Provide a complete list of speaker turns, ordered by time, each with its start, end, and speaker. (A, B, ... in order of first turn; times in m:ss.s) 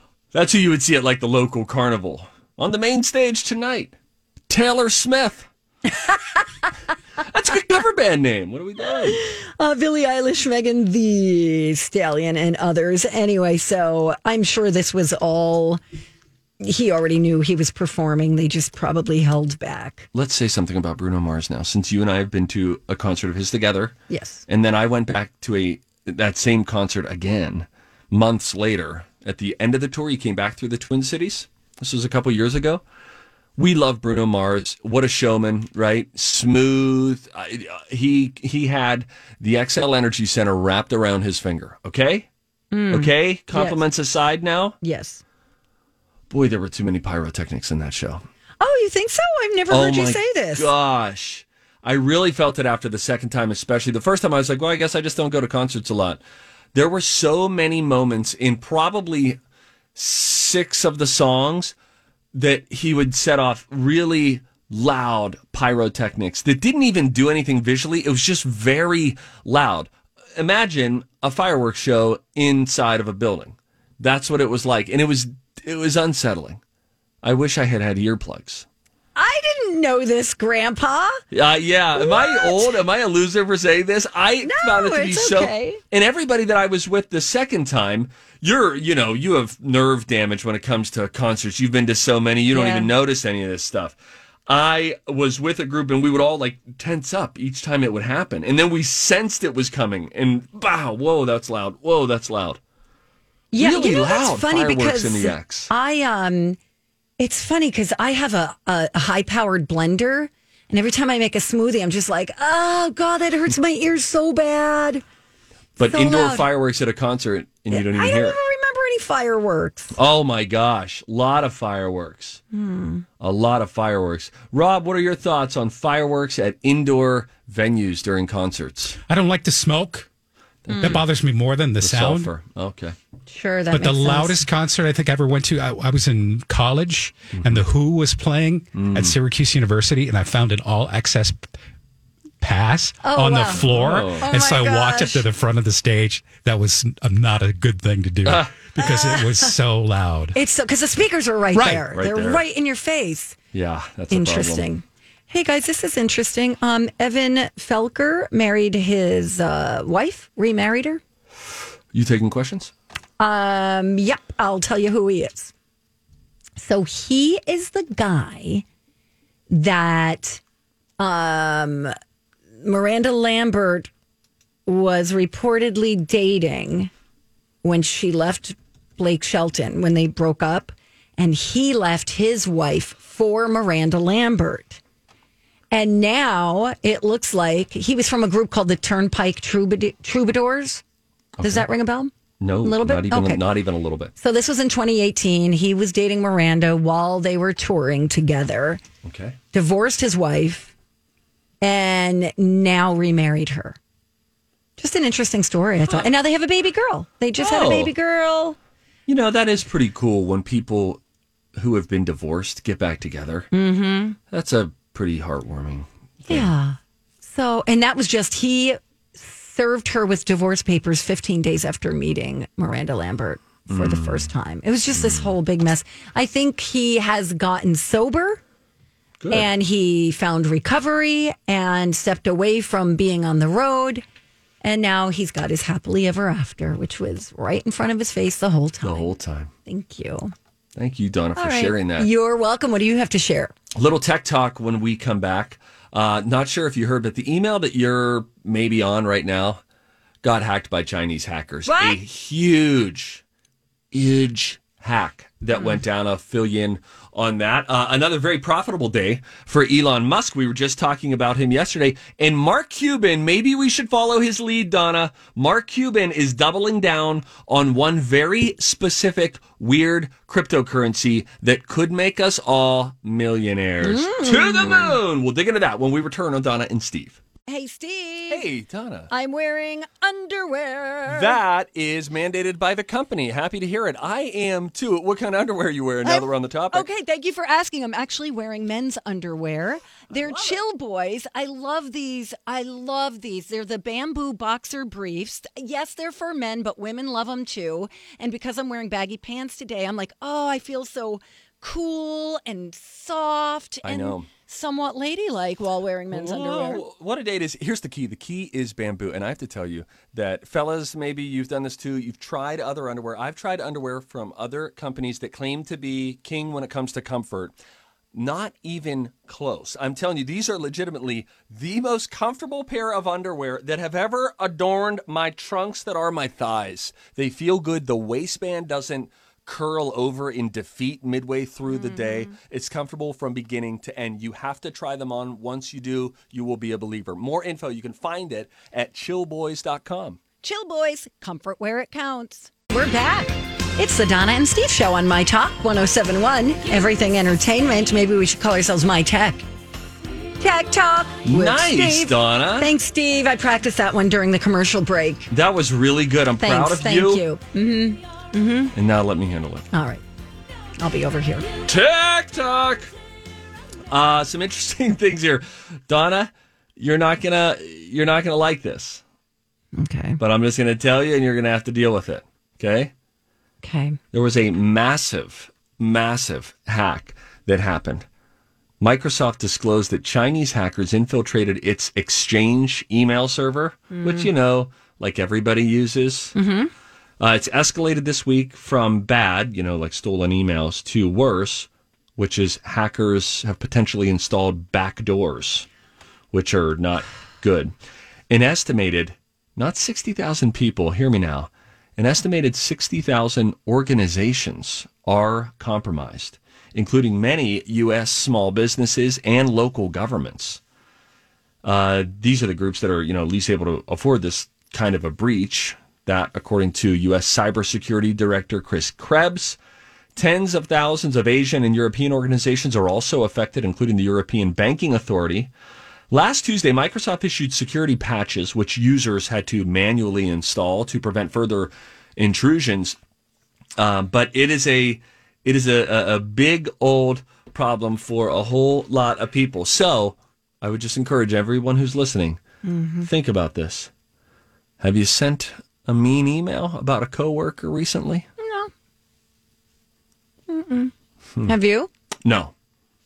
0:00.3-0:04.0 A
0:04.5-0:05.5 A
0:05.9-0:06.2 B
0:07.2-0:09.2 A
0:09.0-0:15.8 B
0:16.6-0:20.1 B
0:20.1-0:24.0 A
0:24.1-0:24.4 B
0:24.5-0:32.8 A
0:33.6-0:42.3 A
0:42.7-0:43.8 B
0:42.9-0:44.8 A
0:44.8-0:45.2 B
0:46.3-0:48.2 A
0:48.6-0:50.7 B
0:49.7-0:56.2 A
0:56.7-0:59.4 A
1:00.0-1:01.8 A
1:02.3-1:16.6 A
1:17.2-1:18.7 A
1:19.2-1:21.2 B
1:21.3-1:42.6 A
1:22.0-1:22.7 B
1:24.4-1:25.8 B
1:32.5-1:32.9 B
1:43.5-1:46.6 B
1:43.6-1:45.7 A
1:47.2-1:55.0 B
1:55.8-1:58.4 A
1:55.8-1:56.5 B
1:57.7-2:00.0 B
1:59.9-2:02.4 A
2:02.5-2:03.0 B
2:03.2-2:09.0 A
2:09.1-2:10.1 C
2:10.6-2:11.0 A
2:10.7-2:11.0 B
2:10.8-2:12.3 C
2:11.8-2:13.0 A
2:13.3-2:14.5 B
2:13.7-2:21.5 C
2:17.3-2:17.6 A
2:18.7-2:19.2 A
2:22.4-2:30.4 C
2:23.0-2:25.3 B
2:23.5-2:24.3 A
2:28.2-2:28.6 A
2:28.8-2:29.6 B
2:30.3-2:33.4 B
2:31.5-2:31.8 C
2:31.8-2:32.4 A
2:33.5-2:34.7 A
2:34.1-2:41.0 B
2:41.9-2:42.7 A
2:43.2-2:45.5 B
2:46.6-2:48.6 B
2:49.5-2:50.4 B
2:51.0-2:51.9 B
2:52.6-2:53.9 B
2:54.7-2:56.9 B
2:57.6-3:04.8 B
3:05.7-3:10.8 B
3:11.4-3:11.7 A
3:11.4-3:13.4 B
3:12.4-3:14.1 A
3:14.2-3:18.8 B
3:19.0-3:19.4 A
3:19.5-3:20.7 B
3:21.6-3:23.8 B
3:24.8-3:28.6 B
3:25.9-3:26.1 A
3:27.4-3:27.9 A
3:29.1-3:31.0 A
3:31.6-3:33.5 A
3:33.5-3:34.2 B
3:34.3-3:36.5 A
3:36.3-3:48.4 B
3:43.7-3:44.3 A
3:44.9-3:45.3 A
3:49.2-3:49.5 A
3:49.3-3:54.0 B
3:54.6-3:59.1 B
3:58.8-3:59.5 A
3:59.7-4:00.3 B
4:00.8-4:02.1 A
4:01.4-4:03.5 B
4:03.8-4:09.6 A
4:10.2-4:13.2 A
4:11.7-4:12.0 B
4:13.9-4:37.2 A
4:33.8-4:35.0 B
4:37.5-4:38.5 B
4:38.3-4:39.1 A
4:39.1-4:41.4 B
4:41.1-4:46.9 A
4:46.0-5:06.8 B
4:50.1-4:50.6 A
5:03.8-5:04.3 A
5:06.1-5:17.5 A
5:18.1-5:40.2 A
5:31.7-5:32.3 B
5:40.4-5:49.4 B
5:50.4-5:55.3 B
5:51.2-5:52.7 A
5:55.3-5:57.2 A
5:56.4-5:58.7 B
5:58.7-5:59.7 A
5:59.7-6:00.0 B
6:00.8-6:01.5 B
6:01.7-6:02.9 A
6:03.9-6:09.0 A
6:09.8-6:10.2 B
6:10.2-6:12.9 A
6:13.6-6:14.0 B
6:14.1-6:18.1 A
6:18.8-6:26.4 A
6:23.9-6:24.3 B
6:26.4-6:26.7 B
6:27.2-6:35.7 A
6:36.3-6:37.7 A
6:38.3-6:50.6 A
6:51.6-6:59.6 A
7:00.2-7:05.5 A
7:06.1-7:13.0 A
7:13.8-7:22.4 A
7:22.6-7:23.1 B
7:23.0-7:23.9 A
7:24.8-7:28.3 A
7:28.4-7:28.7 B
7:30.5-7:30.9 B
7:31.4-7:31.9 B
7:32.2-7:32.5 A